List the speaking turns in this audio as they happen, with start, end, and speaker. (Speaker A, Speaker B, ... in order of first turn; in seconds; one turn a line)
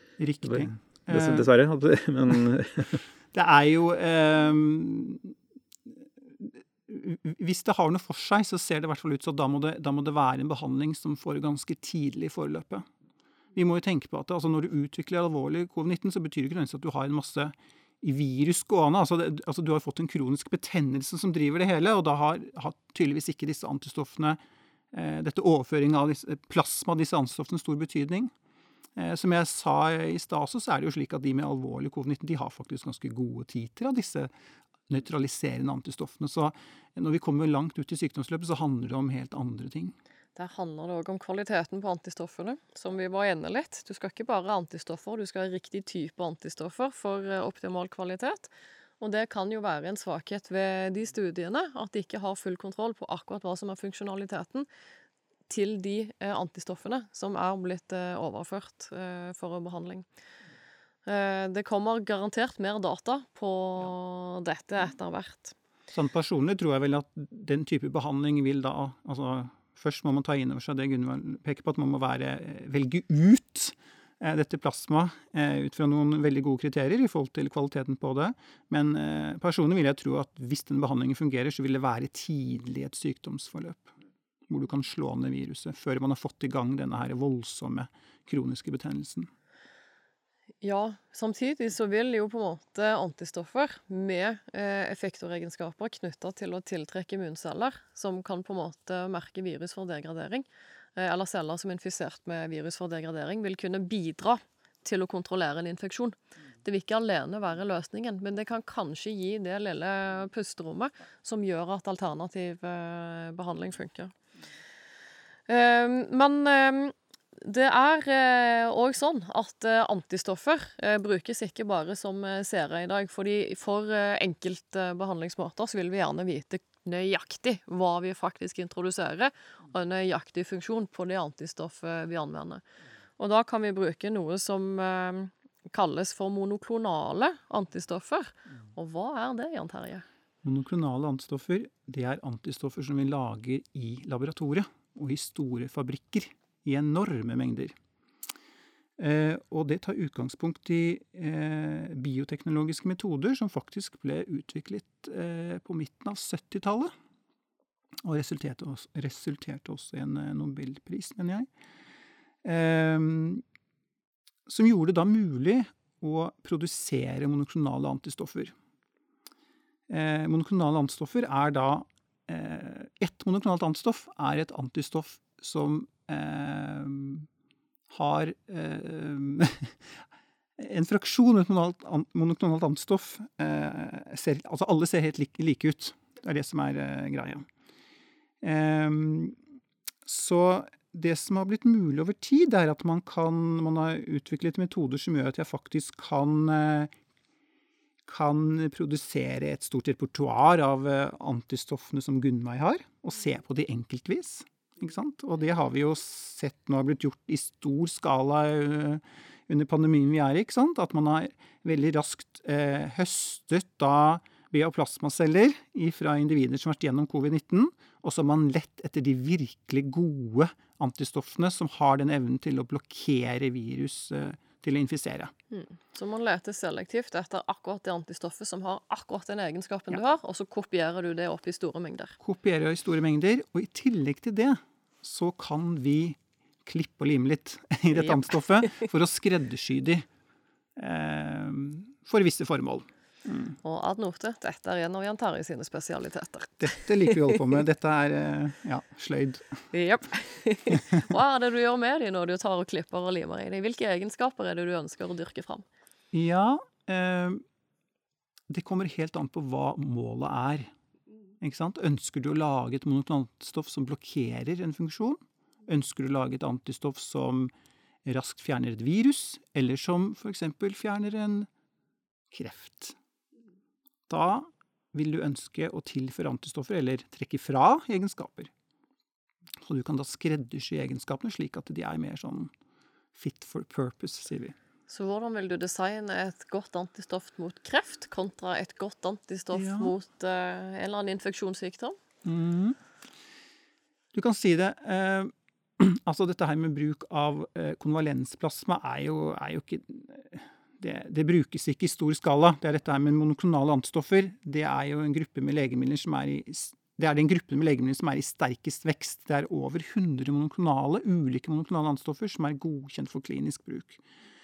Speaker A: 0.2-1.5
Speaker B: 0.5-3.0
Speaker A: 3.3-5.3
Speaker A: 5.9-12.9
Speaker A: 13.6-24.4
Speaker A: 24.9-28.3
Speaker A: 29.0-34.3
Speaker A: 34.9-40.0
Speaker C: 40.4-54.7
Speaker C: 55.5-60.1
Speaker C: 61.1-65.5
Speaker A: 65.9-83.9
Speaker A: 84.5-89.3
Speaker C: 90.6-114.1
Speaker C: 115.5-132.6
Speaker C: 133.2-140.1
Speaker A: 140.4-147.8
Speaker A: 149.0-156.9
Speaker A: 158.1-161.5
Speaker A: 162.4-163.4
Speaker A: 164.5-168.6
Speaker A: 169.9-177.3
Speaker A: 177.9-180.0
Speaker A: 180.6-187.5
Speaker A: 188.4-189.4
Speaker A: 190.1-196.9
Speaker A: 198.1-225.3
Speaker C: 225.5-232.2
Speaker A: 232.2-240.1
Speaker A: 240.8-243.6
Speaker C: 243.6-247.3
Speaker A: 246.6-249.7
Speaker C: 249.7-255.7
Speaker A: 256.1-257.4
Speaker A: 258.5-260.7
Speaker A: 261.4-267.5
Speaker A: 268.1-271.5
Speaker A: 272.3-273.0
Speaker A: 274.1-278.5
Speaker A: 279.6-282.5
Speaker A: 283.1-284.6
Speaker C: 284.9-292.0
Speaker A: 289.5-289.9
Speaker A: 292.2-292.8
Speaker A: 294.1-314.0